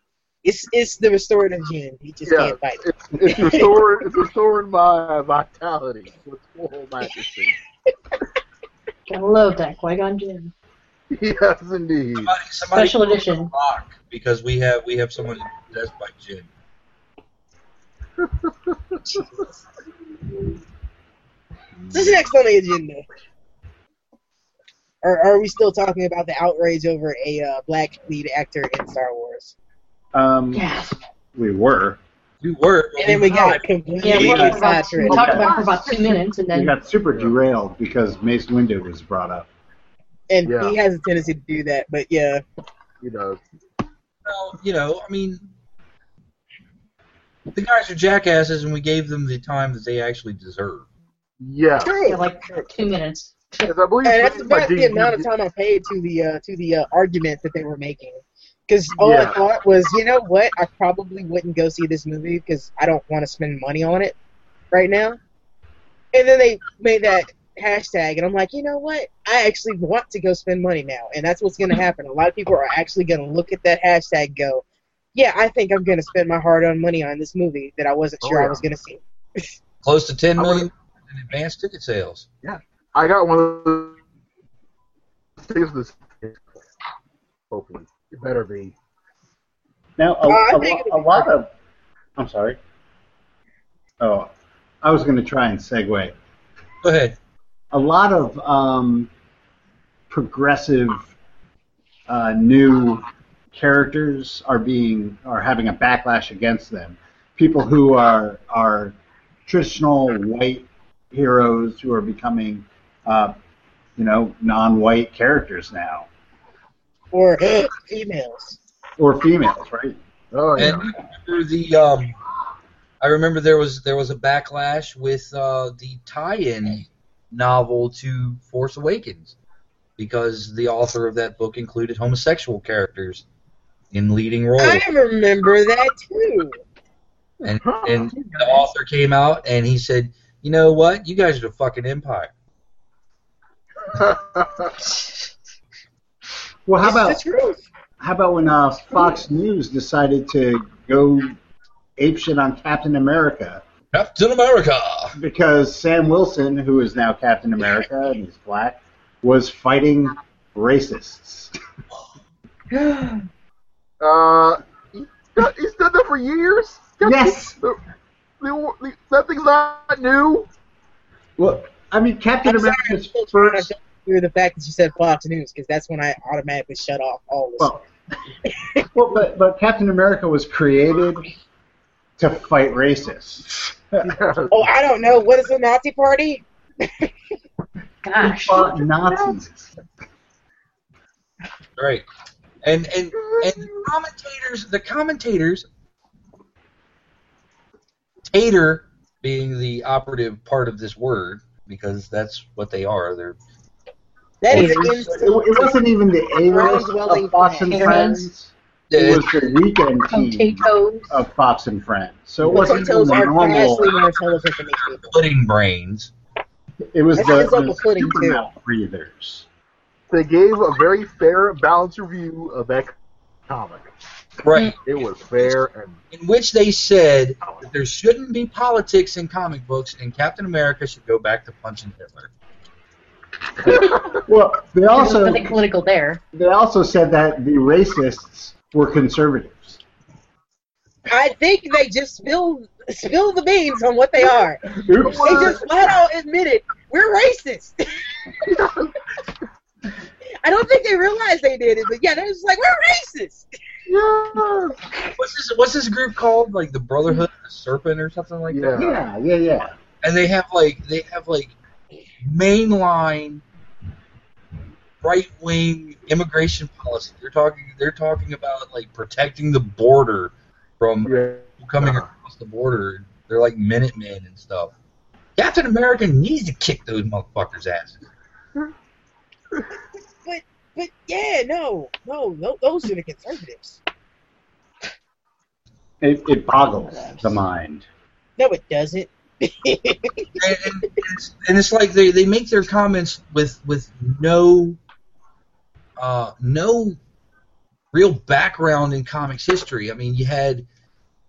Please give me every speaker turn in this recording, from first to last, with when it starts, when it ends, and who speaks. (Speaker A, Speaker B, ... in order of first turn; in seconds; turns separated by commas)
Speaker A: 0.4-3.7, Speaker B: 2.2-7.6, Speaker C: 9.1-10.5, Speaker B: 11.1-12.3, Speaker D: 12.2-16.5, Speaker C: 12.7-13.5, Speaker B: 18.2-19.0, Speaker A: 19.1-19.5, Speaker A: 21.9-23.1, Speaker A: 25.0-29.5, Speaker E: 30.1-30.6, Speaker C: 30.5-30.9, Speaker E: 31.4-32.0, Speaker D: 32.4-34.5, Speaker A: 33.0-35.7, Speaker C: 34.0-36.7, Speaker E: 34.1-34.6, Speaker E: 35.1-35.5, Speaker E: 36.5-39.5, Speaker A: 40.3-42.4, Speaker B: 40.5-40.8, Speaker B: 43.0-43.4, Speaker D: 44.2-45.5, Speaker D: 47.5-50.9, Speaker B: 51.4-52.0, Speaker C: 51.8-53.7, Speaker A: 51.9-52.2, Speaker B: 53.6-55.3, Speaker A: 54.0-64.2, Speaker B: 59.0-59.4, Speaker A: 64.7-65.2, Speaker A: 66.1-79.5, Speaker B: 78.2-78.6, Speaker D: 79.8-82.3, Speaker B: 80.4-80.7, Speaker B: 82.4-84.0, Speaker B: 85.4-86.6, Speaker B: 87.5-88.8, Speaker E: 90.0-91.5, Speaker A: 90.3-91.3, Speaker E: 92.2-92.6, Speaker E: 94.0-94.3, Speaker E: 94.8-96.2, Speaker D: 96.8-97.2, Speaker E: 97.7-99.1, Speaker E: 100.1-101.1, Speaker E: 102.1-113.3, Speaker E: 114.0-116.1, Speaker A: 117.1-118.6, Speaker E: 119.0-120.0, Speaker B: 120.3-120.9, Speaker D: 120.6-122.2, Speaker D: 123.0-129.3, Speaker D: 130.0-133.2, Speaker D: 133.9-134.9, Speaker A: 134.6-136.6, Speaker D: 137.4-142.3, Speaker B: 137.6-138.1, Speaker B: 143.9-144.8, Speaker E: 146.7-147.2, Speaker A: 146.8-147.7, Speaker E: 148.0-151.4, Speaker E: 152.0-153.6, Speaker D: 153.9-155.2, Speaker E: 155.2-161.5, Speaker C: 162.7-163.2, Speaker B: 164.0-167.8, Speaker E: 167.0-167.6, Speaker B: 168.4-170.5, Speaker E: 171.4-173.7, Speaker A: 172.4-177.8, Speaker A: 178.5-178.8, Speaker E: 178.9-181.2, Speaker E: 182.2-184.1, Speaker B: 184.0-184.7, Speaker A: 184.5-187.1, Speaker C: 188.0-189.3, Speaker E: 188.2-189.7, Speaker D: 191.8-192.1, Speaker D: 192.6-195.7, Speaker B: 193.2-193.8, Speaker D: 198.3-203.4, Speaker A: 204.4-205.8, Speaker E: 204.5-213.9, Speaker A: 206.4-208.2, Speaker C: 207.7-208.2, Speaker D: 208.9-209.4, Speaker C: 210.1-211.2, Speaker B: 212.4-212.8, Speaker A: 212.5-215.0, Speaker D: 213.0-214.1, Speaker D: 214.8-216.1, Speaker E: 216.9-219.5, Speaker A: 217.2-218.4, Speaker B: 220.1-222.9, Speaker B: 223.5-223.9, Speaker D: 224.4-224.8, Speaker B: 224.8-226.0, Speaker D: 226.1-232.3, Speaker B: 227.4-227.7, Speaker B: 233.7-234.2, Speaker E: 234.2-235.6, Speaker C: 234.9-236.2, Speaker E: 236.3-239.8, Speaker A: 241.1-244.6, Speaker E: 244.7-245.7, Speaker B: 244.9-245.6, Speaker A: 245.2-248.3, Speaker B: 248.4-248.9, Speaker A: 250.4-253.5, Speaker B: 253.9-254.8, Speaker D: 255.2-258.9, Speaker B: 258.5-259.0, Speaker E: 258.7-259.8, Speaker D: 260.0-261.6, Speaker D: 262.2-263.4, Speaker D: 265.0-274.7, Speaker B: 271.1-272.1, Speaker D: 275.4-278.0, Speaker A: 280.2-283.8, Speaker E: 286.0-287.9, Speaker C: 286.9-287.4, Speaker A: 288.4-290.4, Speaker D: 290.4-294.8, Speaker D: 296.0-297.0, Speaker D: 297.9-300.6